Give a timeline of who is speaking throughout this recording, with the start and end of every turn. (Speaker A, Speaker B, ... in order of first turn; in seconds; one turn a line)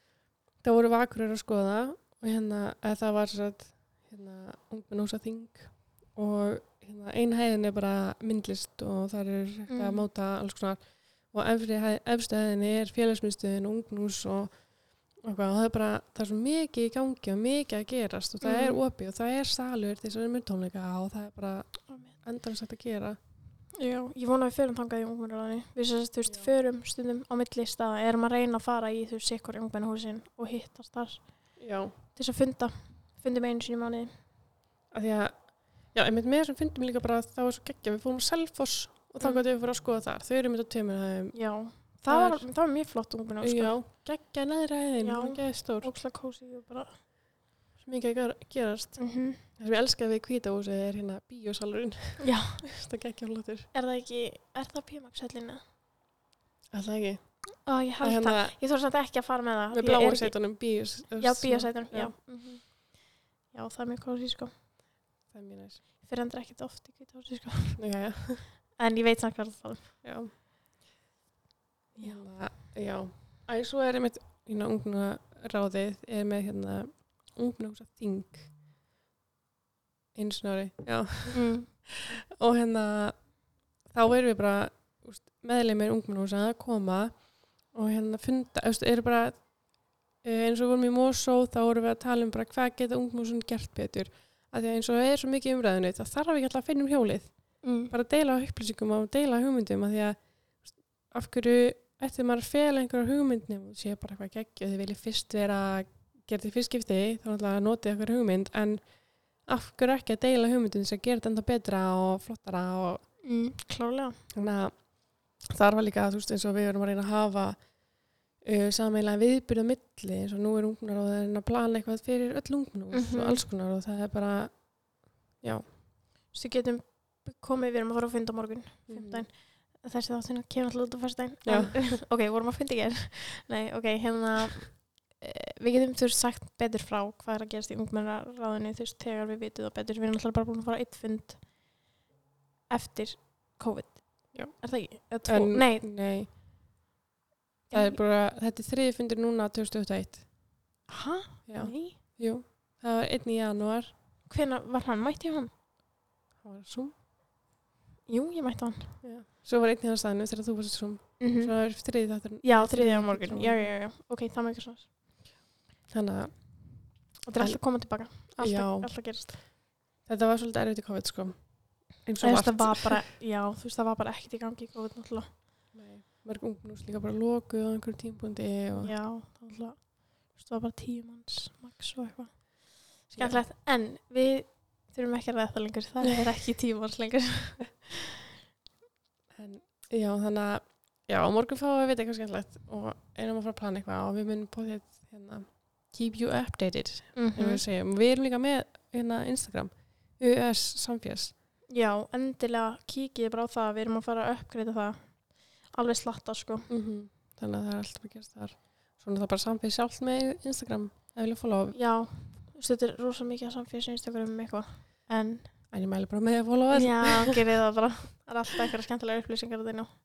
Speaker A: 0.6-23.2
Speaker B: 9.7-10.1
Speaker B: 18.4-18.8
Speaker B: 21.9-22.2
Speaker B: 23.8-31.6
Speaker A: 31.6-31.9
Speaker B: 32.1-34.1
Speaker A: 34.9-42.5
Speaker B: 41.3-43.8
Speaker A: 43.4-45.9
Speaker B: 45.0-47.0
Speaker A: 47.8-53.7
Speaker B: 49.0-49.5
Speaker B: 52.2-52.6
Speaker B: 53.7-55.6
Speaker A: 56.7-57.5
Speaker B: 57.6-64.5
Speaker A: 58.0-58.6
Speaker A: 59.7-62.1
Speaker A: 65.3-65.8
Speaker B: 66.0-67.8
Speaker A: 67.8-68.5
Speaker B: 68.8-70.0
Speaker A: 70.0-70.3
Speaker B: 72.0-72.3
Speaker A: 72.0-78.5
Speaker A: 80.2-113.1
Speaker B: 81.3-81.7
Speaker B: 97.6-97.9
Speaker B: 113.2-114.2
Speaker A: 114.3-125.7
Speaker B: 122.9-123.5
Speaker B: 126.3-141.5
Speaker A: 128.9-129.2
Speaker A: 131.4-132.0
Speaker B: 142.7-145.9
Speaker A: 145.2-146.3
Speaker B: 147.7-148.0
Speaker A: 147.7-150.3
Speaker B: 150.9-152.0
Speaker A: 151.5-153.9
Speaker B: 154.3-155.5
Speaker A: 156.4-156.9
Speaker B: 158.1-159.0
Speaker A: 159.0-163.7
Speaker B: 161.2-161.8
Speaker B: 162.4-164.9
Speaker A: 165.9-169.5
Speaker B: 167.3-169.4
Speaker A: 170.0-173.0
Speaker B: 172.2-175.3
Speaker A: 175.7-178.9
Speaker B: 178.8-188.0
Speaker A: 183.1-183.4
Speaker A: 189.3-201.3
Speaker B: 197.2-197.6
Speaker B: 201.7-206.7
Speaker A: 206.7-211.8
Speaker B: 211.7-215.6
Speaker A: 215.7-217.4
Speaker B: 216.7-219.9